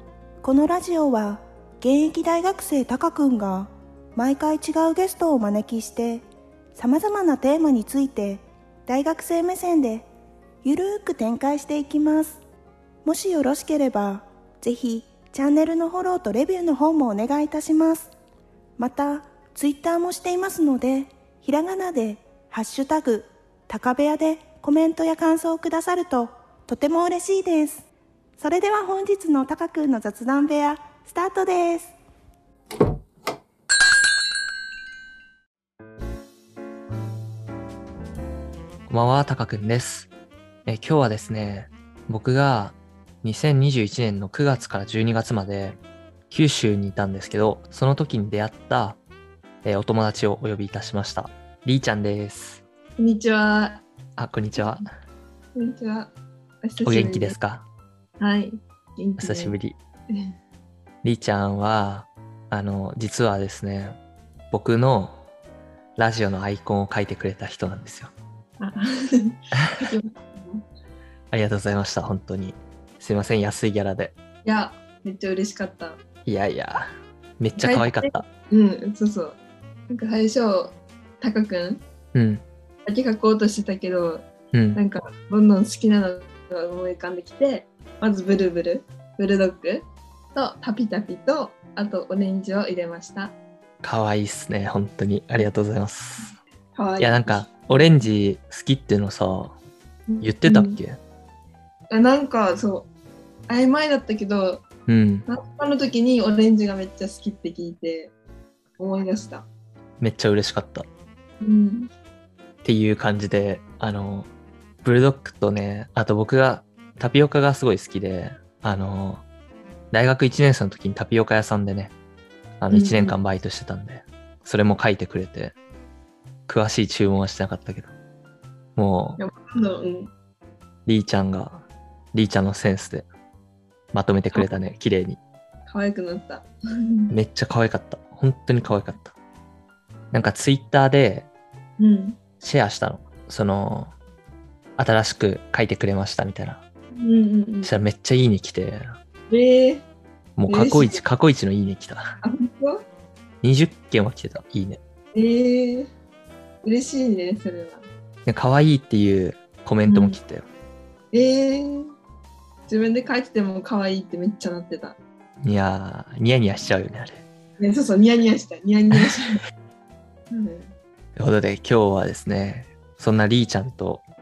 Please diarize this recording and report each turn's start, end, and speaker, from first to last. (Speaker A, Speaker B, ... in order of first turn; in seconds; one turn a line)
Speaker A: 0.4-10.1
Speaker A: 10.6-12.4
Speaker A: 13.0-18.1
Speaker A: 18.8-27.8
Speaker A: 28.4-31.9
Speaker B: 38.9-40.1
Speaker B: 40.6-45.8
Speaker B: 46.3-49.0
Speaker B: 49.6-52.6
Speaker C: 53.0-53.8
Speaker B: 54.2-54.9
Speaker C: 55.5-56.1
Speaker C: 56.6-57.4
Speaker B: 56.8-57.6
Speaker C: 58.2-59.6
Speaker B: 59.2-59.8
Speaker B: 61.0-64.0
Speaker B: 64.5-65.1
Speaker B: 66.0-68.1
Speaker C: 68.6-70.6
Speaker B: 69.5-69.9
Speaker B: 71.3-74.1
Speaker C: 74.4-76.0
Speaker B: 76.2-78.2
Speaker C: 77.6-79.4
Speaker C: 79.9-81.8
Speaker B: 82.1-82.4
Speaker C: 82.8-93.3
Speaker B: 84.5-84.8
Speaker B: 93.8-96.3
Speaker C: 96.7-97.5
Speaker B: 97.0-99.5
Speaker C: 100.1-100.8
Speaker B: 100.2-101.0
Speaker C: 101.9-102.9
Speaker C: 103.5-104.6
Speaker B: 104.9-105.2
Speaker C: 105.3-108.1
Speaker C: 108.8-109.5
Speaker B: 110.0-110.9
Speaker C: 111.4-111.9
Speaker B: 112.6-114.3
Speaker B: 114.8-119.2
Speaker B: 119.9-121.9
Speaker B: 122.6-125.5
Speaker C: 122.7-123.2
Speaker B: 126.5-127.9
Speaker B: 128.8-129.2
Speaker C: 129.2-130.1
Speaker B: 130.8-133.1
Speaker B: 133.9-135.2
Speaker C: 135.7-137.1
Speaker B: 137.1-139.1
Speaker B: 140.1-141.3
Speaker C: 141.8-142.2
Speaker B: 142.4-143.9
Speaker B: 144.8-146.6
Speaker C: 146.9-147.7
Speaker B: 147.6-148.9
Speaker C: 149.3-149.8
Speaker B: 150.4-152.1
Speaker C: 150.5-151.0
Speaker C: 152.2-152.8
Speaker B: 153.4-154.8
Speaker C: 155.1-155.9
Speaker C: 156.6-157.8
Speaker B: 158.2-160.5
Speaker C: 159.8-160.2
Speaker C: 161.1-161.9
Speaker C: 162.7-165.0
Speaker B: 165.4-167.2
Speaker C: 167.6-169.4
Speaker C: 170.3-170.7
Speaker B: 171.2-174.0